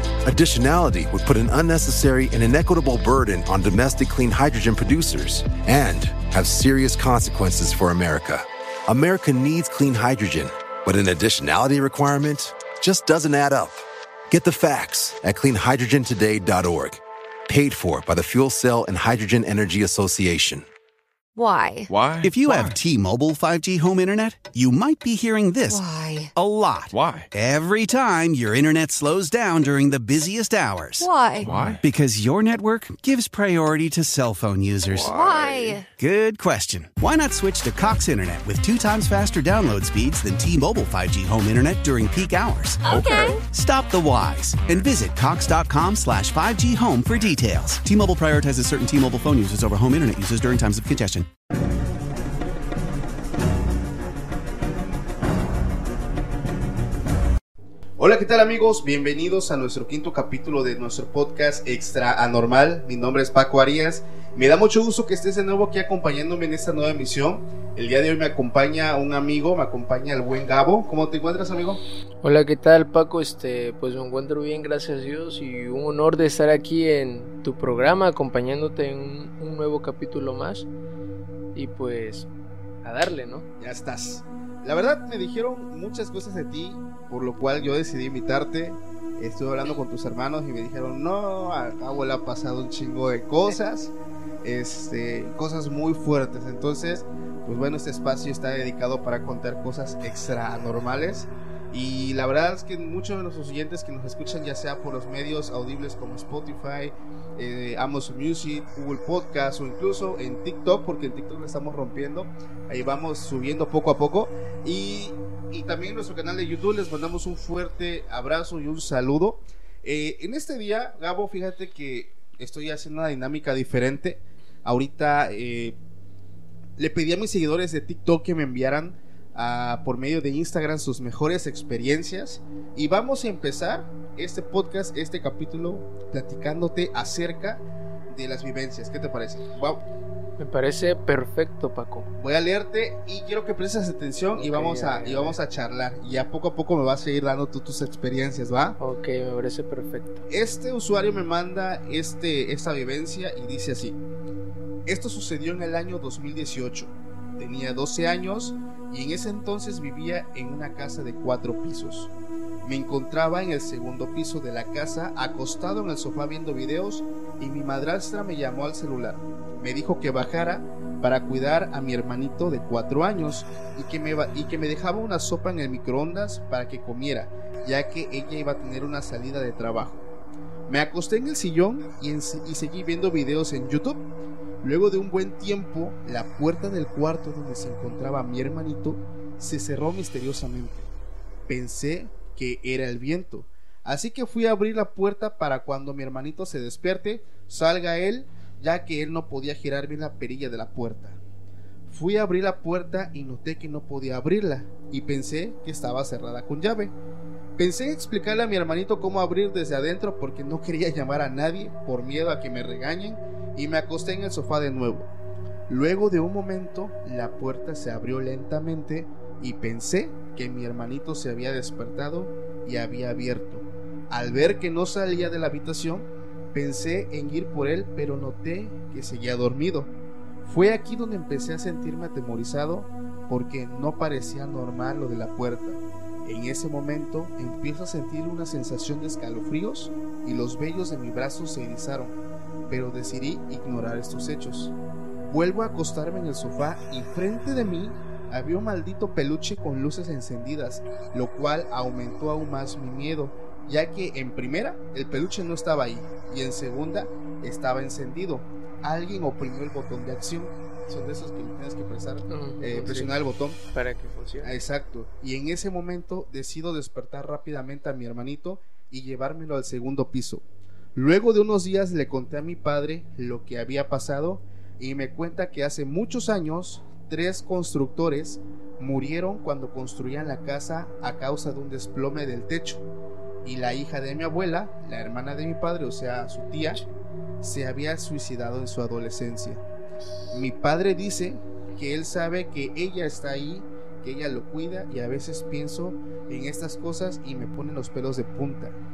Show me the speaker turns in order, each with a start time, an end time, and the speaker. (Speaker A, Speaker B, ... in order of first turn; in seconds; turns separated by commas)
Speaker A: 0.2-20.6, Speaker B: 21.4-21.9, Speaker C: 21.9-22.8, Speaker D: 22.2-25.8, Speaker B: 25.7-26.3, Speaker D: 26.3-35.2, Speaker C: 26.9-27.3, Speaker B: 31.0-31.5, Speaker C: 31.4-31.8, Speaker C: 34.9-35.8, Speaker B: 35.0-35.9, Speaker D: 35.8-51.3, Speaker B: 42.9-43.4, Speaker E: 58.0-71.8, Speaker F: 72.2-80.7, Speaker F: 81.5-82.3, Speaker F: 82.8-83.5, Speaker E: 83.6-125.8, Speaker E: 126.8-139.8, Speaker F: 140.4-142.1, Speaker E: 142.2-148.8, Speaker F: 144.3-145.4, Speaker F: 148.8-150.2, Speaker E: 150.3-154.0, Speaker E: 154.8-162.1, Speaker E: 162.6-180.0, Speaker E: 180.7-184.0, Speaker E: 184.6-190.9, Speaker E: 191.5-201.2, Speaker E: 201.9-206.9, Speaker E: 207.6-215.1, Speaker E: 215.7-229.9, Speaker E: 230.4-242.2, Speaker E: 242.7-244.7, Speaker E: 245.2-263.6, Speaker F: 262.3-263.1, Speaker F: 263.7-264.6, Speaker E: 264.4-270.4, Speaker E: 270.9-282.8, Speaker E: 283.4-286.8, Speaker E: 287.4-289.6, Speaker E: 290.3-298.8